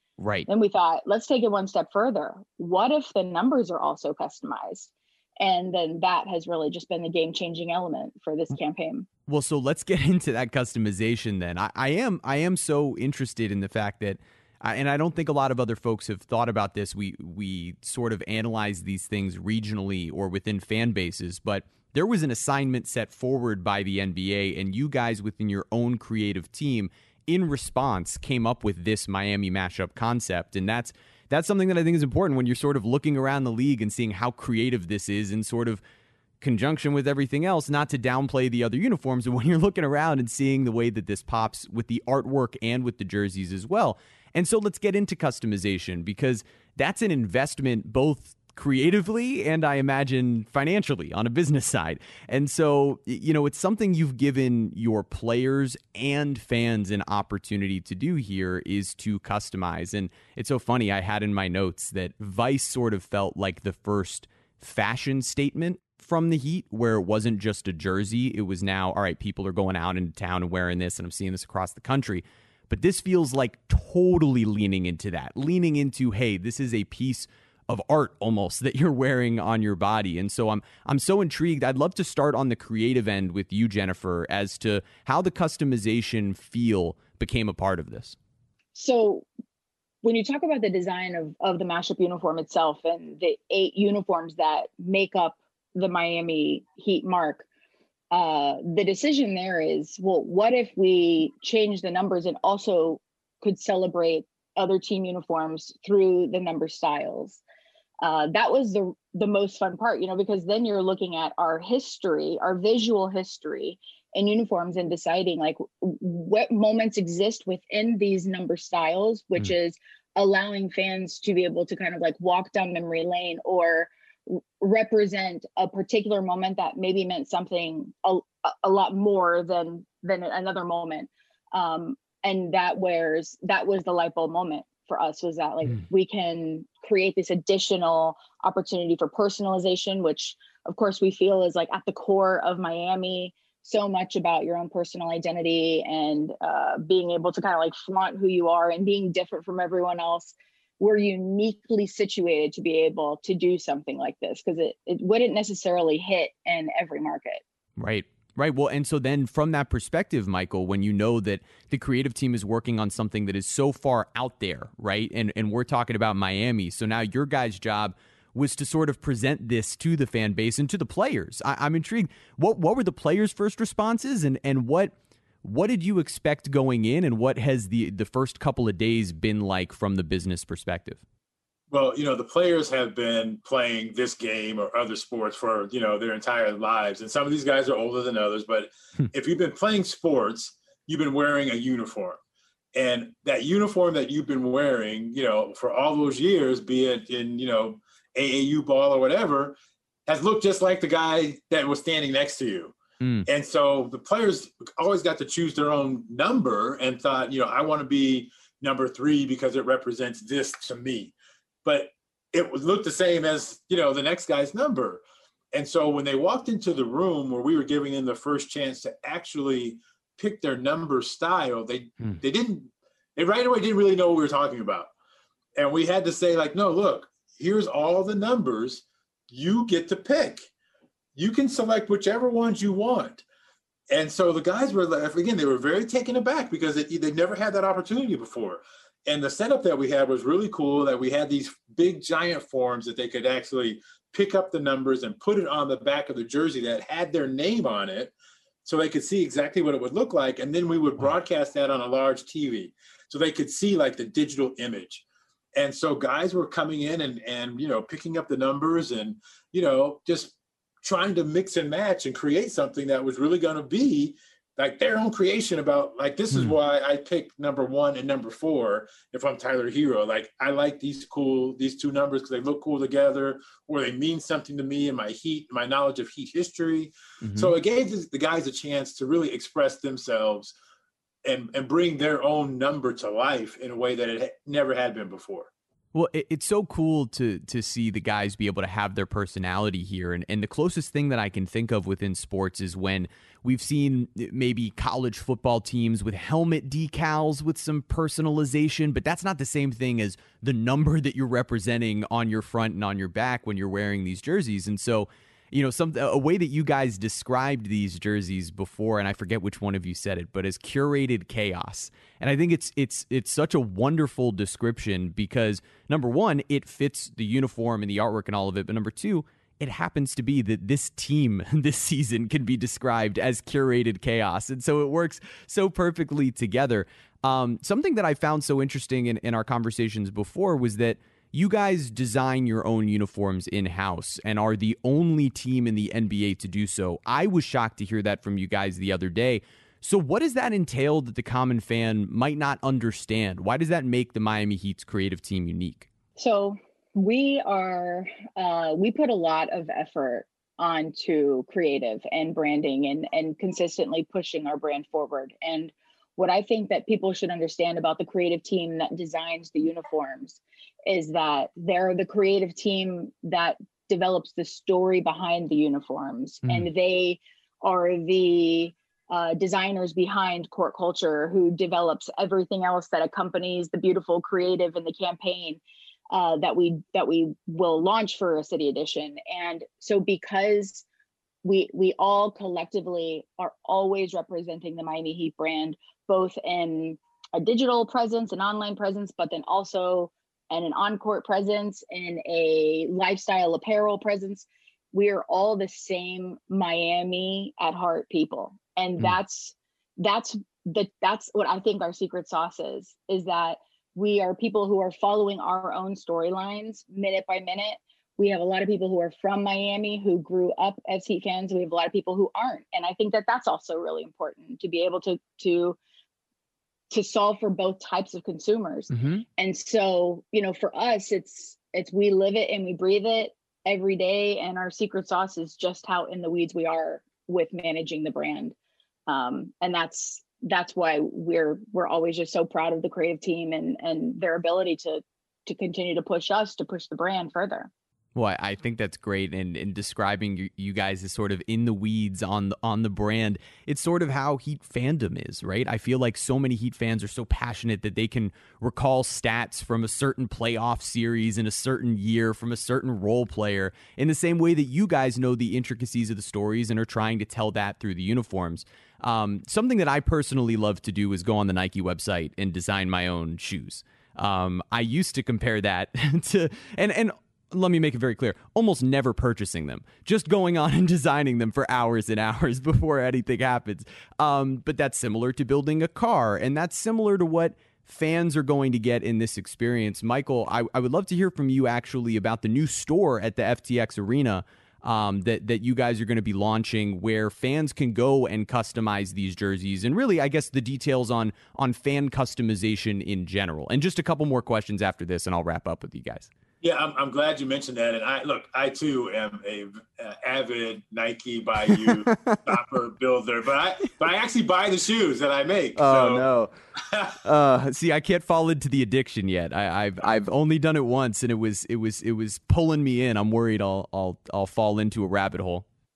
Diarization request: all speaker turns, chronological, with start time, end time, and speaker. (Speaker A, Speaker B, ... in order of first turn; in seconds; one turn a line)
Speaker A: 0.2-0.5
Speaker B: 0.5-9.1
Speaker A: 9.3-35.8
Speaker A: 36.4-88.2
Speaker B: 88.7-89.3
Speaker B: 90.0-97.5
Speaker B: 98.1-107.4
Speaker B: 108.0-157.4
Speaker A: 157.8-181.0
Speaker C: 181.7-192.2
Speaker C: 192.7-199.5
Speaker C: 200.1-202.7
Speaker A: 203.0-203.3
Speaker C: 203.2-211.1
Speaker C: 211.6-215.0
Speaker C: 215.5-224.9
Speaker C: 225.6-230.5
Speaker C: 231.2-233.2
Speaker C: 233.9-248.1
Speaker C: 248.6-255.0
Speaker C: 255.6-280.5
Speaker A: 277.2-277.5
Speaker C: 281.2-285.5
Speaker A: 285.9-345.9
Speaker B: 346.2-380.8
Speaker A: 366.4-366.7
Speaker B: 381.4-415.8
Speaker B: 416.9-428.5
Speaker A: 418.9-419.2
Speaker B: 429.1-437.7
Speaker A: 438.1-496.3
Speaker C: 496.6-506.3
Speaker A: 501.6-502.6
Speaker A: 505.8-506.5
Speaker C: 506.8-507.2
Speaker A: 507.2-515.6